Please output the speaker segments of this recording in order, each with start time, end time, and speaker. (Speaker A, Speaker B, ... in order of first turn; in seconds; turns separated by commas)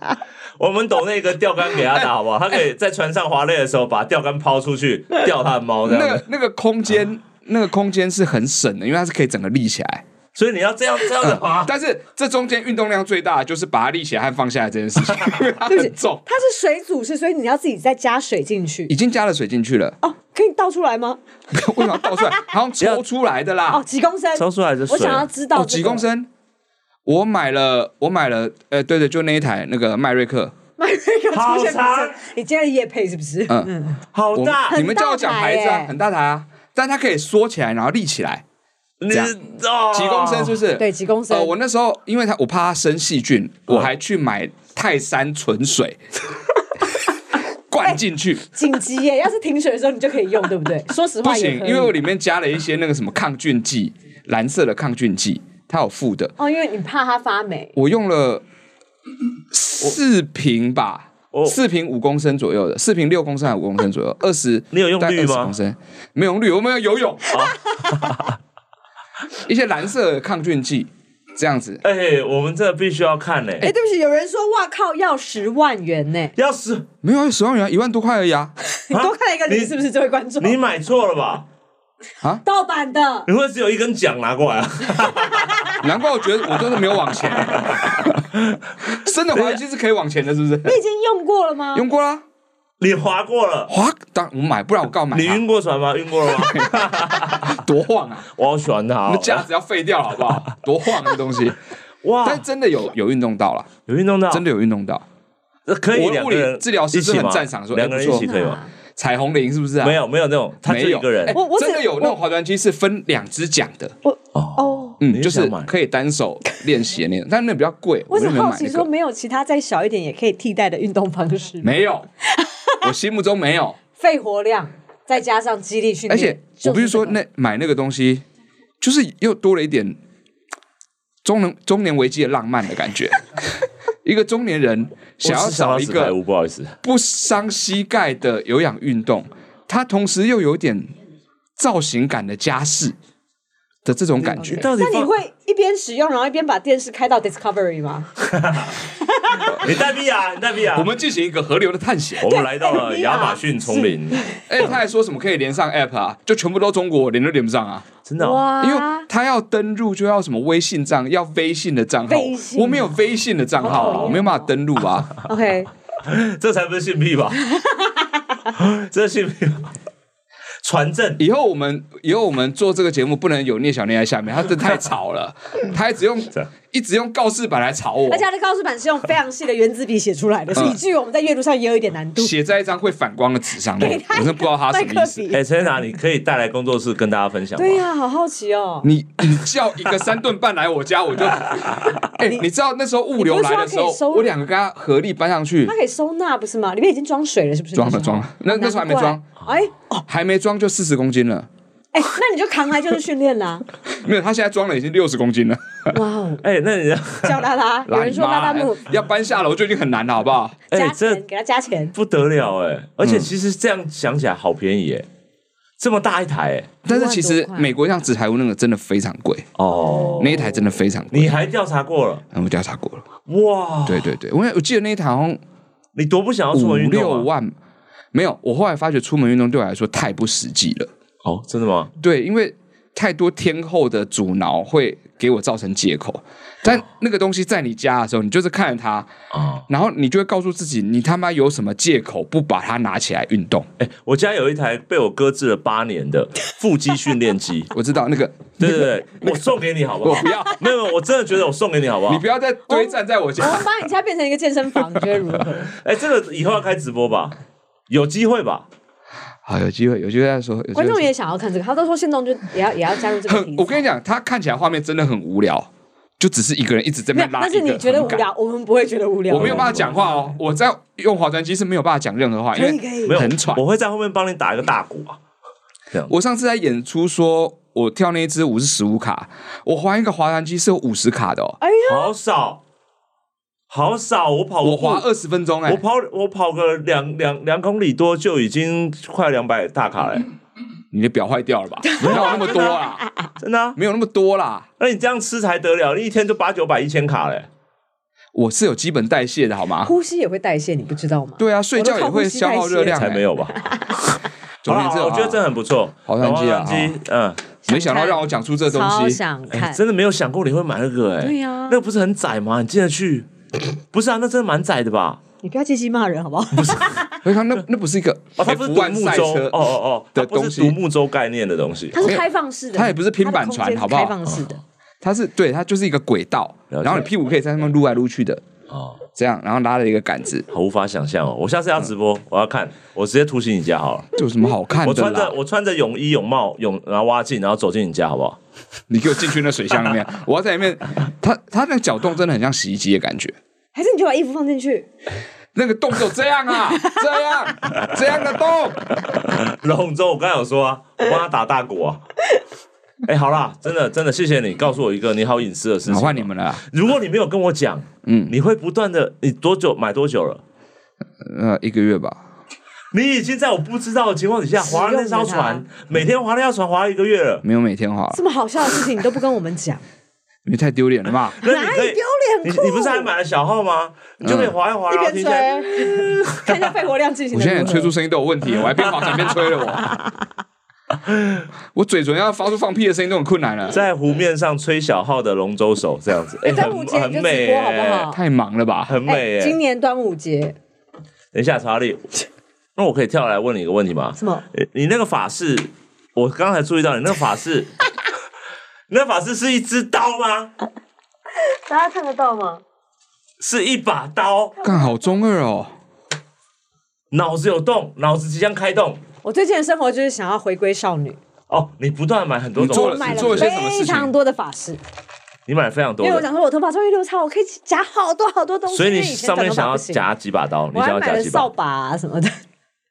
Speaker A: 0.6-6.2, Speaker B: 5.8-10.0, Speaker A: 10.3-11.7, Speaker B: 11.2-16.2, Speaker C: 15.6-18.9, Speaker B: 18.9-19.9, Speaker C: 20.0-21.2, Speaker B: 21.5-23.8, Speaker C: 21.8-22.4, Speaker C: 23.7-26.0, Speaker A: 24.4-25.3, Speaker B: 25.5-26.3, Speaker B: 27.0-30.5, Speaker C: 30.8-34.0, Speaker A: 31.3-32.2, Speaker A: 34.1-34.8, Speaker B: 34.3-38.4, Speaker C: 34.7-35.9, Speaker A: 39.0-40.6, Speaker B: 39.9-46.0, Speaker C: 40.8-41.5, Speaker B: 47.7-48.4, Speaker C: 47.8-52.0, Speaker B: 51.2-56.3, Speaker C: 56.4-57.8, Speaker B: 57.8-58.4, Speaker B: 59.5-67.4, Speaker A: 61.3-61.6, Speaker A: 64.7-65.5, Speaker A: 67.3-68.3, Speaker B: 69.4-71.8, Speaker A: 71.8-73.7, Speaker C: 73.6-76.3, Speaker A: 76.3-76.9, Speaker B: 77.0-78.5, Speaker C: 78.8-80.6, Speaker A: 78.9-79.7, Speaker A: 80.4-81.5, Speaker C: 82.4-83.3, Speaker A: 83.3-85.8, Speaker B: 85.8-88.2, Speaker A: 87.5-88.6, Speaker B: 88.9-90.8, Speaker A: 89.3-89.6, Speaker C: 90.6-91.8, Speaker B: 91.7-92.2, Speaker A: 92.8-93.7, Speaker B: 93.7-95.4, Speaker A: 95.1-97.6, Speaker B: 96.3-96.9, Speaker B: 97.4-98.3, Speaker A: 98.3-99.5, Speaker B: 99.1-101.6, Speaker A: 102.0-102.4, Speaker B: 102.2-103.7, Speaker A: 103.8-104.4, Speaker B: 104.3-105.0, Speaker A: 105.7-108.5, Speaker B: 105.9-108.3, Speaker C: 108.1-108.7, Speaker B: 109.0-110.0, Speaker A: 109.8-111.4, Speaker B: 110.7-113.9, Speaker C: 111.3-112.2, Speaker C: 114.0-115.0, Speaker A: 114.3-115.7, Speaker B: 115.0-118.9, Speaker C: 118.1-122.8, Speaker B: 121.6-122.0, Speaker B: 122.8-123.8, Speaker C: 124.0-127.2, Speaker B: 126.1-128.2, Speaker B: 128.8-130.0, Speaker B: 131.2-133.5, Speaker B: 134.0-136.1, Speaker A: 135.2-136.8, Speaker B: 136.8-140.9, Speaker B: 141.6-142.9, Speaker B: 143.8-144.7, Speaker A: 144.2-145.1, Speaker C: 144.4-148.1, Speaker A: 148.2-148.7, Speaker C: 149.0-149.6, Speaker A: 149.4-150.9, Speaker B: 150.7-152.2, Speaker A: 152.2-154.2, Speaker C: 152.2-154.4, Speaker B: 154.5-157.9, Speaker A: 158.0-158.4, Speaker C: 158.2-159.1, Speaker B: 158.6-165.1, Speaker C: 162.1-162.9, Speaker C: 163.6-164.5, Speaker A: 163.6-164.2, Speaker C: 165.2-165.7, Speaker A: 166.0-167.4, Speaker C: 167.5-168.0, Speaker A: 168.5-169.7, Speaker A: 170.6-171.2, Speaker B: 171.2-178.2, Speaker C: 178.1-182.3, Speaker B: 180.5-180.8, Speaker B: 182.2-185.2, Speaker C: 183.8-185.4, Speaker A: 185.3-187.8, Speaker C: 187.6-188.9, Speaker B: 188.8-195.7, Speaker C: 192.2-192.4, Speaker C: 193.1-194.3, Speaker C: 195.6-200.0, Speaker B: 197.7-199.2, Speaker B: 200.1-201.5, Speaker C: 201.9-203.6, Speaker B: 203.9-205.9, Speaker C: 205.9-206.4, Speaker A: 206.4-207.4, Speaker C: 207.2-208.8, Speaker B: 207.9-210.6, Speaker C: 210.7-211.9, Speaker A: 210.7-211.2, Speaker A: 211.9-215.1, Speaker B: 213.0-213.3, Speaker A: 215.8-216.8, Speaker B: 216.8-219.5, Speaker C: 216.9-217.7, Speaker A: 219.6-220.5, Speaker C: 219.9-220.2, Speaker B: 220.2-221.4, Speaker A: 221.1-222.2, Speaker B: 222.3-223.0, Speaker A: 223.3-224.1, Speaker B: 223.8-225.4, Speaker A: 225.9-227.3, Speaker B: 226.5-227.5, Speaker B: 228.1-230.9, Speaker A: 231.2-231.9, Speaker B: 232.0-239.1, Speaker A: 239.3-239.6, Speaker B: 239.7-243.7, Speaker A: 243.8-247.7, Speaker B: 247.7-249.4, Speaker A: 248.6-252.2, Speaker B: 250.0-250.6, Speaker B: 252.1-253.7, Speaker C: 252.7-255.7, Speaker A: 255.7-257.4, Speaker A: 257.9-258.7, Speaker B: 259.4-261.1, Speaker C: 260.7-263.9, Speaker B: 263.3-265.7, Speaker B: 266.2-268.2, Speaker C: 267.1-270.0, Speaker B: 269.3-273.6, Speaker A: 269.3-270.1, Speaker C: 272.5-273.2, Speaker A: 273.1-275.2, Speaker B: 276.1-281.6, Speaker C: 281.6-282.1, Speaker A: 281.9-282.6, Speaker A: 283.7-285.1, Speaker B: 284.6-285.8, Speaker A: 285.6-290.3, Speaker B: 290.9-293.0, Speaker C: 291.9-293.0, Speaker A: 292.0-292.9, Speaker A: 293.4-293.8, Speaker B: 293.8-294.7, Speaker A: 294.8-297.5, Speaker B: 298.3-299.9, Speaker C: 299.8-303.9, Speaker B: 301.4-303.3, Speaker A: 302.9-307.4, Speaker B: 304.6-305.4, Speaker B: 306.1-307.0, Speaker C: 307.6-309.8, Speaker B: 307.7-309.2, Speaker A: 309.5-313.3, Speaker C: 311.2-311.8, Speaker A: 313.9-315.2, Speaker C: 315.4-317.1, Speaker A: 316.5-317.0, Speaker B: 317.2-319.6, Speaker A: 318.4-322.0, Speaker B: 320.1-320.8, Speaker C: 321.9-324.6, Speaker B: 322.0-324.1, Speaker A: 324.2-324.5, Speaker B: 325.0-328.4, Speaker A: 326.7-327.1, Speaker A: 328.7-329.0, Speaker B: 329.1-330.5, Speaker A: 330.5-334.1, Speaker B: 334.1-335.3, Speaker A: 334.8-338.4, Speaker B: 338.9-343.3, Speaker C: 343.7-344.9, Speaker B: 345.5-348.8, Speaker A: 349.4-352.0, Speaker A: 353.0-360.4, Speaker B: 355.9-356.6, Speaker B: 358.0-358.3, Speaker B: 361.2-362.2, Speaker A: 362.9-367.4, Speaker C: 364.6-365.6, Speaker B: 367.4-368.2, Speaker C: 368.1-369.8, Speaker B: 370.4-371.4, Speaker A: 371.4-376.6, Speaker C: 371.4-373.1, Speaker B: 374.2-374.5, Speaker C: 374.9-377.9, Speaker B: 377.3-380.0, Speaker B: 381.7-383.8, Speaker A: 383.7-388.1, Speaker C: 386.4-388.2, Speaker B: 388.1-389.0, Speaker A: 388.9-389.6, Speaker C: 389.1-390.6, Speaker A: 391.3-392.1, Speaker A: 392.8-397.7, Speaker C: 394.2-394.4, Speaker A: 398.9-400.5, Speaker C: 401.4-402.6, Speaker A: 403.4-404.5, Speaker C: 404.6-405.2, Speaker B: 404.6-405.7, Speaker A: 407.1-409.0, Speaker C: 409.2-411.2, Speaker A: 411.5-413.5, Speaker B: 412.6-414.1, Speaker C: 412.6-414.8, Speaker A: 415.5-416.2, Speaker C: 416.0-420.0, Speaker A: 418.7-421.5, Speaker C: 420.7-422.4